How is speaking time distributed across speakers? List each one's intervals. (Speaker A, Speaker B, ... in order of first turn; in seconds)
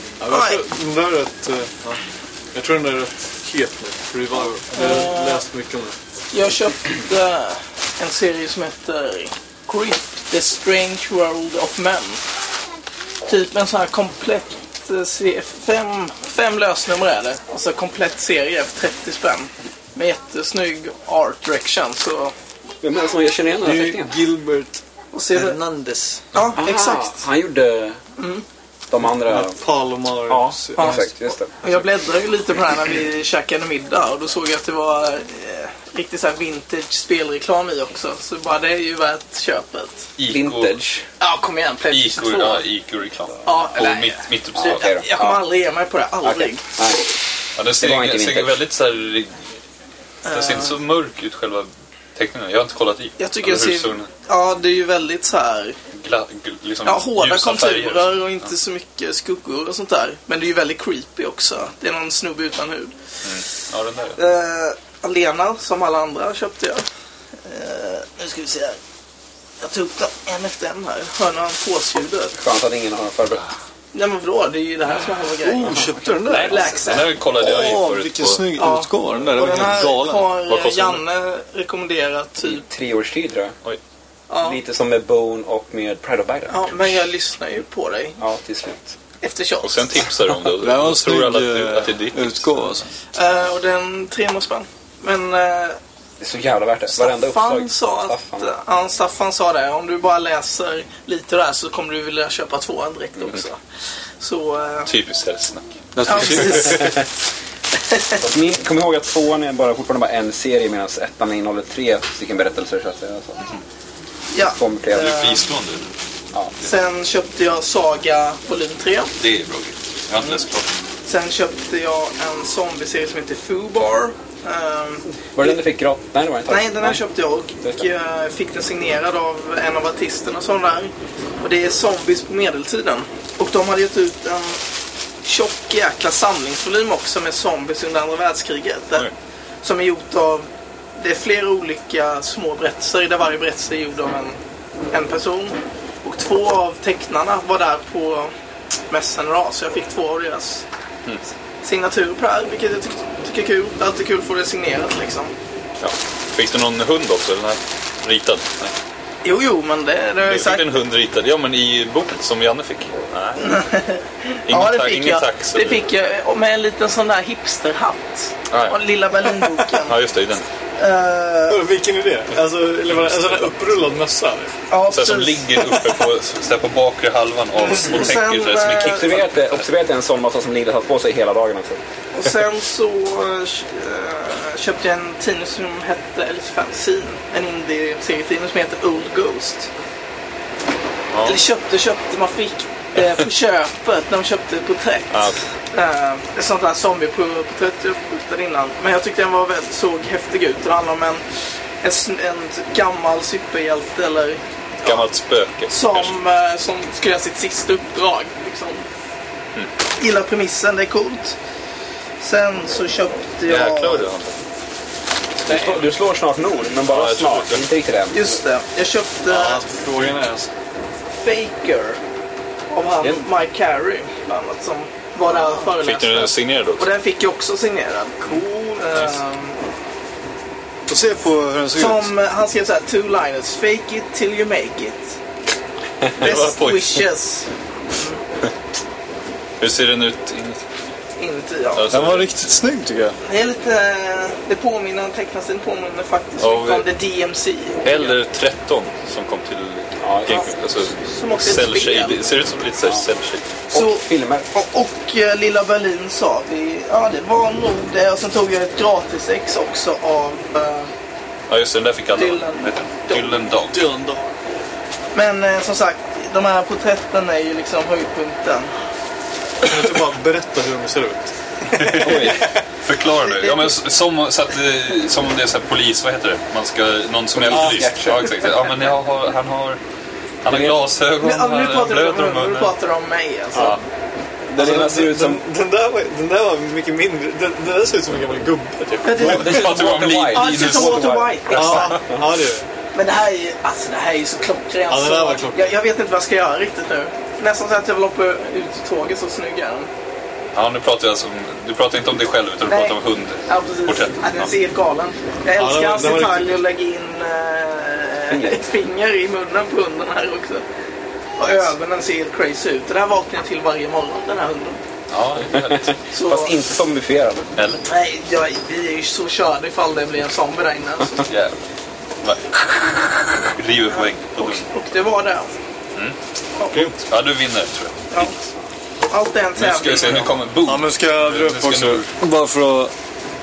Speaker A: 0.2-2.0, 2.5-6.0, 23.6-24.8, 25.3-26.2, 29.2-31.1, 75.4-76.7, 77.4-80.3, 90.6-92.9, 106.0-107.0, 171.5-174.5, 219.3-220.5, 230.9-232.1, 241.9-243.2, 263.7-264.3, 269.6-271.3, 271.8-272.5, 277.5-277.9, 284.6-289.6, 291.5-292.6, 294.9-295.7, 305.6-306.6, 330.6-332.9
Speaker B: 0.3-0.6, 4.8-5.4, 6.3-12.2, 13.3-22.3, 25.1-25.6, 26.3-27.2, 28.2-28.4, 30.8-31.1, 31.6-40.1, 41.2-42.6, 43.5-46.6, 50.2-50.7, 53.2-55.8, 56.9-62.9, 64.2-66.8, 67.5-68.8, 69.6-72.4, 73.9-77.1, 78.6-82.6, 84.3-84.6, 86.5-88.2, 89.2-90.0, 93.2-95.8, 96.9-103.6, 104.2-104.9, 106.1-107.0, 107.9-108.2, 114.3-115.5, 116.6-119.1, 121.1-125.6, 126.5-134.6, 135.2-139.1, 139.6-144.4, 144.9-148.3, 148.9-150.7, 151.6-155.3, 159.2-160.7, 163.4-170.0, 170.8-171.6, 174.7-175.9, 177.6-179.1, 182.1-189.7, 191.2-201.2, 201.8-205.1, 205.7-208.9, 210.0-211.4, 212.2-214.1, 215.5-215.8, 218.1-219.6, 221.2-222.0, 222.7-229.6, 231.8-235.2, 236.2-238.2, 241.2-241.9, 243.2-248.2, 250.3-252.2, 253.7-260.9, 262.1-263.4, 265.1-268.7, 273.3-273.7, 281.2-283.8, 289.0-292.0, 292.9-299.9, 302.7-310.6, 311.4-314.8, 316.1-316.6, 317.9-321.3, 323.9-325.5, 326.6-326.9, 329.1-330.3
Speaker C: 22.8-24.2, 26.6-28.0, 28.9-29.6, 30.2-31.5, 40.3-41.0, 44.5-45.4, 46.2-47.1, 47.8-48.6, 72.3-73.5, 82.4-83.5, 84.4-86.9, 88.2-89.0, 96.2-98.5, 108.2-113.4, 114.5-115.2, 125.3-127.0, 178.8-181.8, 215.4-218.4, 223.0-223.3, 250.0-250.4, 253.7-254.5, 272.0-272.5, 277.3-278.4, 280.5-280.8, 284.5-285.4, 289.2-292.2, 308.3-308.6, 315.6-317.5
Speaker D: 40.2-40.8, 41.9-44.9, 47.6-49.3, 50.3-54.1, 55.9-58.2, 63.2-64.2, 76.3-78.5, 80.5-81.0, 89.6-92.6, 104.9-105.6, 114.9-115.9, 119.2-120.7, 155.8-158.7, 160.2-163.5, 164.5-165.8, 168.5-168.8, 169.8-170.5, 172.9-173.5, 174.9-179.6, 191.1-191.4, 195.1-195.4, 204.8-206.1, 213.5-214.3, 216.7-217.7, 225.8-226.9, 236.1-237.1, 239.6-240.6, 241.8-242.3, 246.4-246.9, 247.8-253.5, 261.5-263.8, 271.7-279.8, 280.4-282.7, 283.6-283.8, 289.2-291.9, 300.5-304.5, 315.1-315.9, 317.6-317.8, 321.3-321.6, 322.2-324.6, 326.7-328.3, 329.6-332.1